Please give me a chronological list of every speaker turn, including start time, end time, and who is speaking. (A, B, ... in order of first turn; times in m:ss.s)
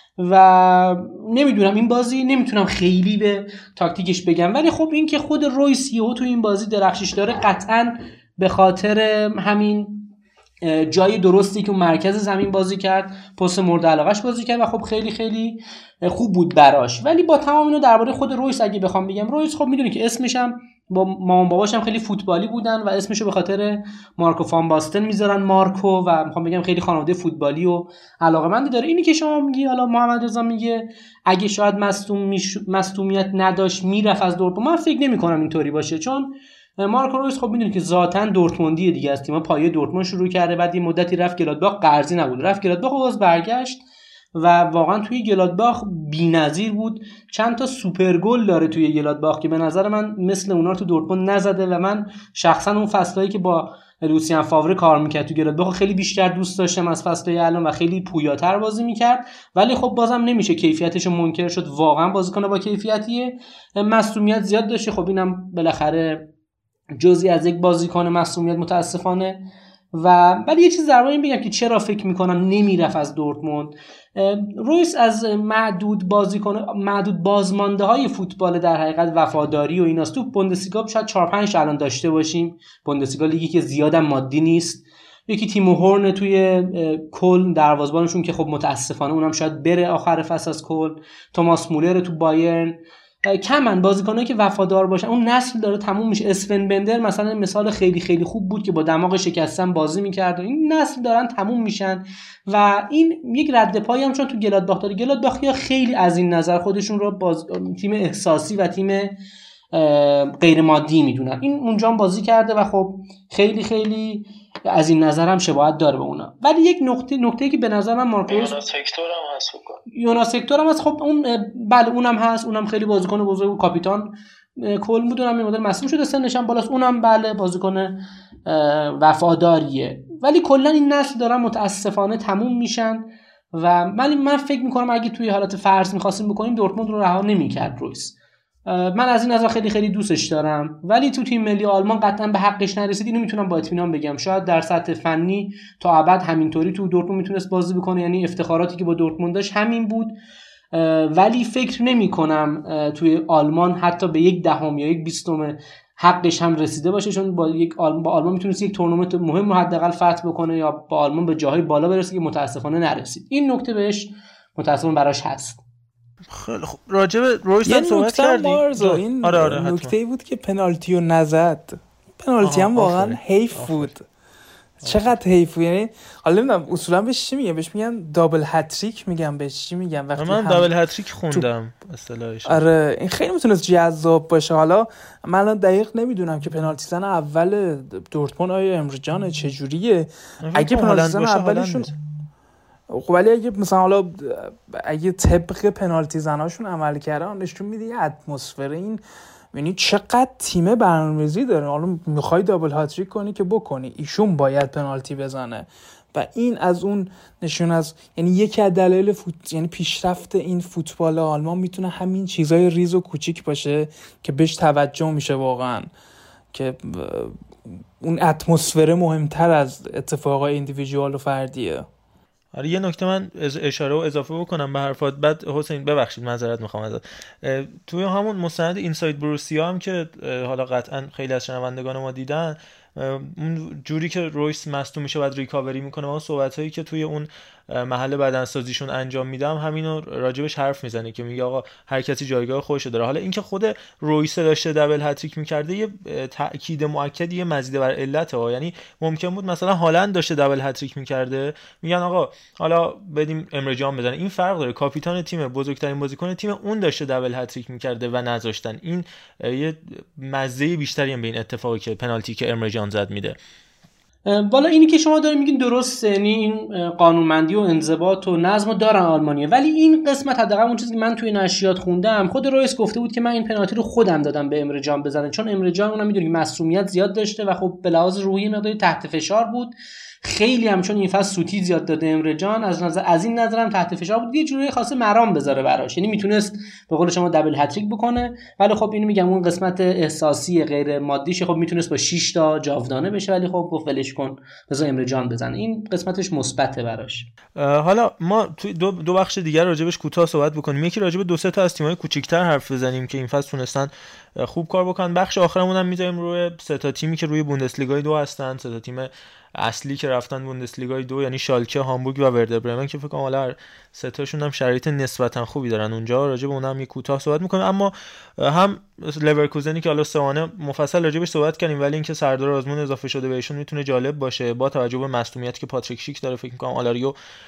0:00.2-0:10.1 A
0:10.6-0:43.8 A
0:44.3-1:06.3 A
1:07.0-1:09.4 A
1:09.9-1:49.2 A
1:49.7-1:58.6 A
1:59.9-2:18.1 A
2:18.7-2:30.1 A
2:30.7-2:45.6 A
2:46.3-2:49.9 B
2:47.6-2:54.0 C
2:52.4-2:53.9 B
2:54.8-2:55.1 B
2:54.8-3:00.7 C
3:00.2-3:02.6 B
3:02.4-3:11.9 C
3:10.4-3:11.9 B
3:12.9-3:19.0 C
3:19.5-3:35.9 C
3:36.5-3:41.9 C
3:42.5-4:23.4 B
4:24.2-4:57.3 A
4:57.6-5:27.2 B